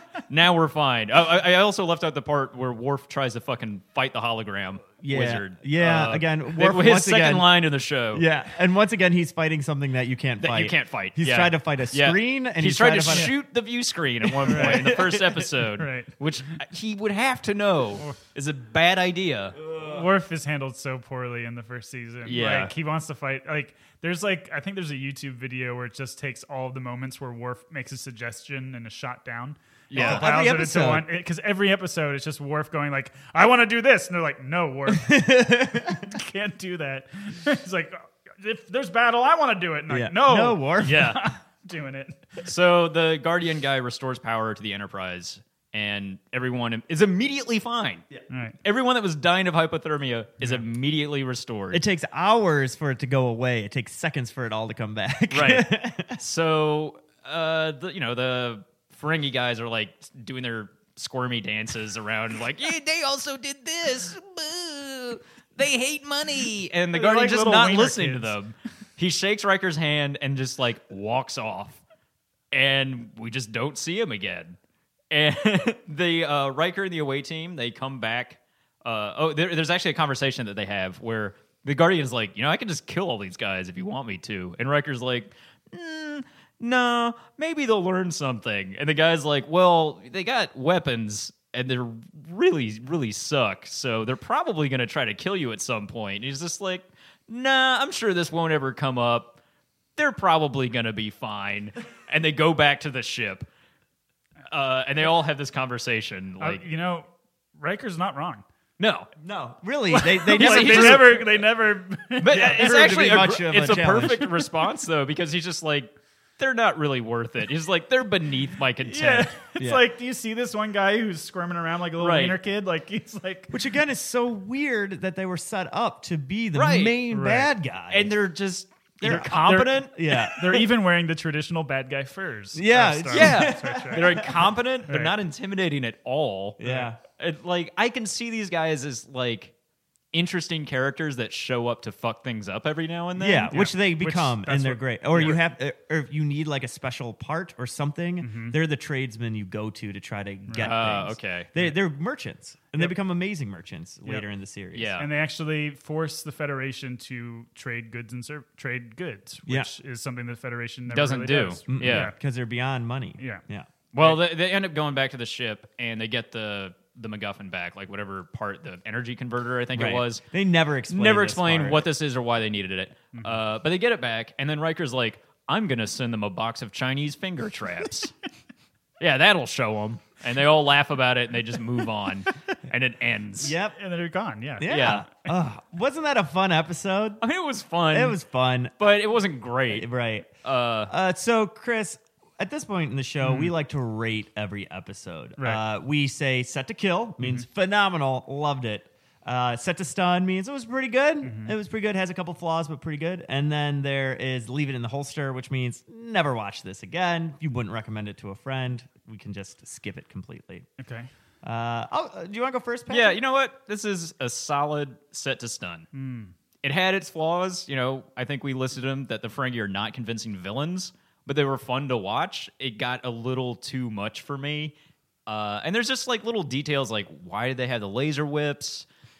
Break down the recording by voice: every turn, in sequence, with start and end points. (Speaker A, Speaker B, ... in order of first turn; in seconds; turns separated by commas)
Speaker A: 0.3-8.2, Speaker B: 5.0-7.5, Speaker B: 8.1-13.3, Speaker A: 10.4-19.6, Speaker B: 14.2-15.4, Speaker C: 14.4-15.0, Speaker C: 15.7-16.2, Speaker C: 19.7-35.2, Speaker B: 19.7-20.0, Speaker A: 22.2-22.7, Speaker A: 29.9-30.3, Speaker B: 29.9-31.1, Speaker B: 34.9-36.1, Speaker C: 35.9-42.4, Speaker B: 39.9-41.0, Speaker A: 40.8-41.3, Speaker A: 42.4-48.1, Speaker C: 48.3-48.6, Speaker A: 48.6-51.8, Speaker B: 51.7-56.2, Speaker A: 55.3-71.8, Speaker C: 66.9-68.3, Speaker A: 72.5-74.6, Speaker A: 75.1-99.4, Speaker A: 100.0-103.5, Speaker A: 104.5-106.6, Speaker C: 106.4-108.4, Speaker A: 108.8-109.1, Speaker B: 109.2-111.3, Speaker C: 109.9-112.9, Speaker A: 110.4-111.2, Speaker A: 112.2-119.3, Speaker B: 112.3-114.3, Speaker C: 118.8-123.5, Speaker A: 122.0-122.4, Speaker B: 123.5-128.1, Speaker A: 126.5-127.0, Speaker C: 127.1-127.5, Speaker A: 127.9-129.8, Speaker B: 129.0-130.7, Speaker C: 129.0-134.2, Speaker B: 132.5-134.5, Speaker A: 133.1-136.6, Speaker C: 134.9-135.2, Speaker B: 136.6-137.0, Speaker C: 136.6-136.9, Speaker A: 137.2-139.5, Speaker A: 140.1-143.6, Speaker B: 143.2-154.9, Speaker C: 143.5-145.4, Speaker C: 148.2-148.6, Speaker C: 150.5-150.7, Speaker A: 150.6-151.5, Speaker A: 154.7-155.1, Speaker C: 155.0-162.2, Speaker A: 160.9-162.1, Speaker B: 161.7-163.7, Speaker C: 163.2-163.4, Speaker A: 163.9-170.2, Speaker B: 169.7-171.9, Speaker A: 170.9-178.1, Speaker C: 173.1-173.4, Speaker A: 179.0-183.5, Speaker B: 183.4-183.8, Speaker C: 183.7-185.1, Speaker B: 184.6-187.2, Speaker A: 184.7-185.0, Speaker A: 187.2-188.2, Speaker B: 187.9-188.8, Speaker A: 188.8-189.9, Speaker B: 189.7-190.3, Speaker A: 190.4-190.9, Speaker B: 190.9-210.7, Speaker C: 193.2-193.5, Speaker C: 201.2-201.5, Speaker C: 210.8-211.1, Speaker B: 211.4-213.2, Speaker A: 212.9-215.9, Speaker C: 215.9-216.3, Speaker A: 216.6-224.7, Speaker A: 225.3-228.9